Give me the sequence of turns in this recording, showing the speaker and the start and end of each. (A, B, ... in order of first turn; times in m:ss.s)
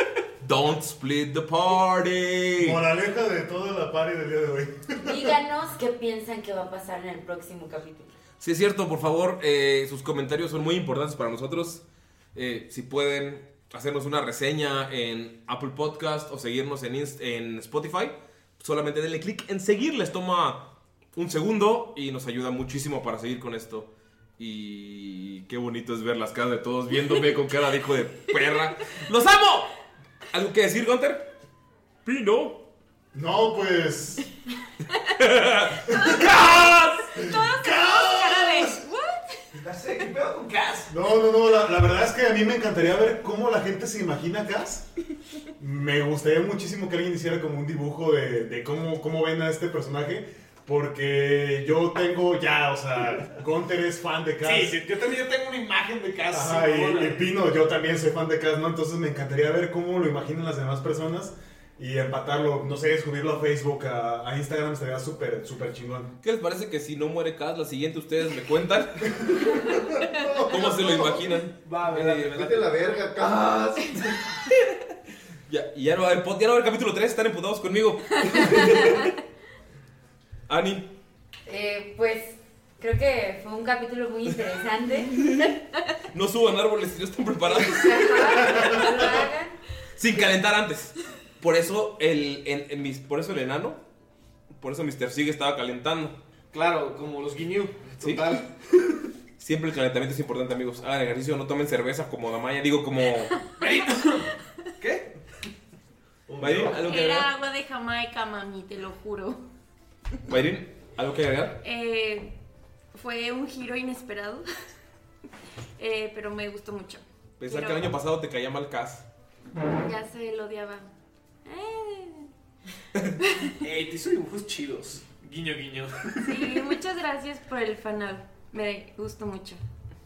0:00.4-0:02.8 A
0:02.6-0:05.3 B
0:05.0-0:08.1 C
0:08.4-0:29.7 A
0:30.3-0:31.3 A
0:32.0-0:32.6 A
0:33.1-0:34.2 B
0:35.1-0:37.1 A
0:35.9-0:36.4 B
0:37.1-0:39.4 D
0:37.2-0:38.8 B
0:39.6-0:40.9 E
0:40.9-0:44.8 B
0:45.6-0:54.8 B
0:54.4-0:57.2 E
0:56.3-1:06.1 B
1:06.2-1:09.1 A
1:09.1-1:11.3 B
1:10.5-1:12.3 A
1:11.6-1:12.8 E
1:12.3-1:14.3 F
1:15.5-1:18.9 A
1:20.5-1:20.9 A
1:21.4-1:25.1 C
1:25.1-1:25.5 A
1:26.1-1:29.1 A
1:27.4-1:29.6 C
1:30.0-1:33.8 A
1:34.5-1:36.2 A
1:36.5-1:38.5 E
1:39.4-1:43.3 A
1:43.6-1:45.1 E
1:46.3-1:46.8 F
1:46.4-1:47.3 A
1:46.7-1:49.4 D
1:50.3-1:51.6 A
1:51.6-1:52.3 D
1:52.9-1:54.5 D
1:55.8-1:57.9 D
1:57.4-1:59.1 A
1:59.8-2:00.9 D
2:01.4-2:02.3 D
2:03.2-2:03.5 D
2:03.6-2:06.6 E
2:06.2-2:09.6 D